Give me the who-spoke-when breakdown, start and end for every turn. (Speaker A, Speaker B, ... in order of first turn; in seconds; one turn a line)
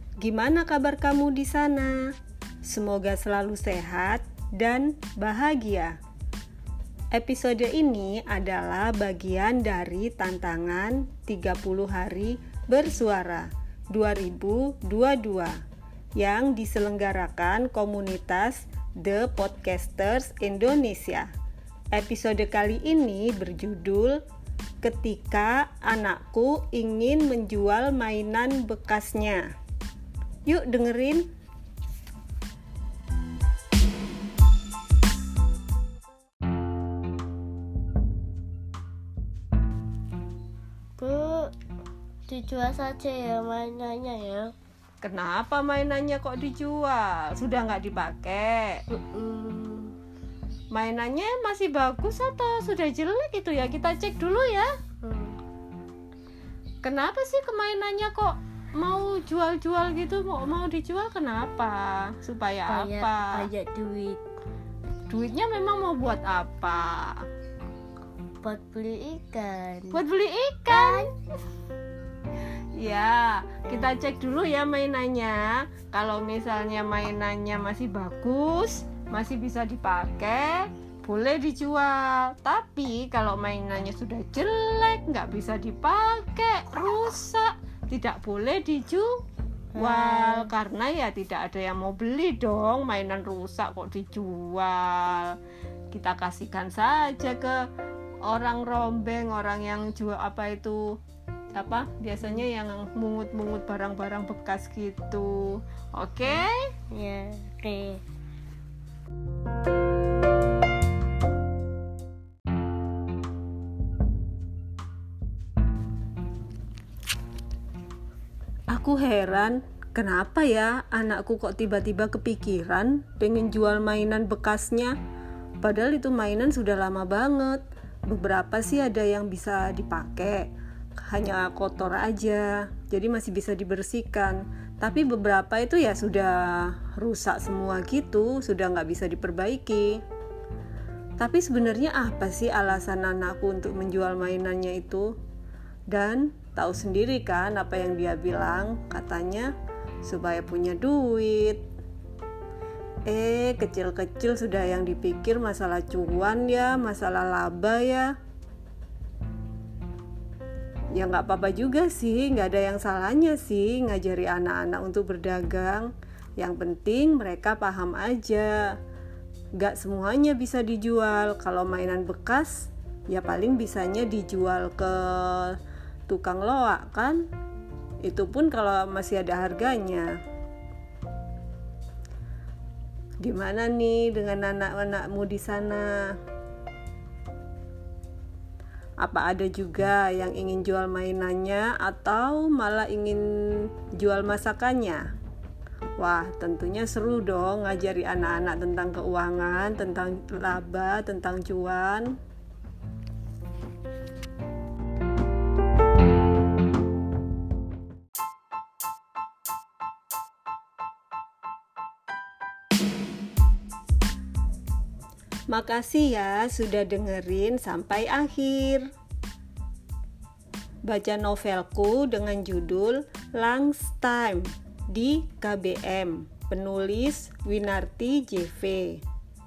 Speaker A: 0.2-6.0
Speaker A: 7.1-15.6
Speaker A: 16.2-21.3
Speaker A: 21.9-24.2
Speaker A: 24.8-29.5
Speaker A: 30.5-31.3
Speaker B: 41.0-41.5
Speaker B: 42.3-44.5
Speaker A: 45.0-48.8
Speaker B: 48.9-50.0
Speaker A: 50.7-54.7
Speaker B: 55.0-55.4
Speaker A: 56.8-63.5
Speaker B: 62.7-64.2
Speaker A: 65.1-67.2
Speaker B: 68.4-70.0
Speaker A: 69.9-71.1
Speaker B: 70.7-71.1
Speaker A: 72.8-89.2
Speaker B: 89.8-90.5
Speaker A: 89.8-95.4
Speaker A: 95.9-97.6
Speaker A: 98.3-101.0
Speaker A: 101.5-106.6
Speaker B: 106.9-108.0
Speaker A: 118.7-125.0
Speaker A: 125.6-130.5
Speaker A: 131.0-140.0
Speaker A: 141.2-145.1
Speaker A: 145.9-149.5
Speaker A: 150.0-151.6
Speaker A: 153.1-158.1
Speaker A: 160.9-168.8
Speaker A: 169.6-177.3
Speaker A: 178.0-180.2
Speaker A: 183.2-186.2
Speaker A: 189.0-195.1
Speaker A: 196.0-202.2
Speaker A: 215.5-218.9
Speaker A: 220.8-229.0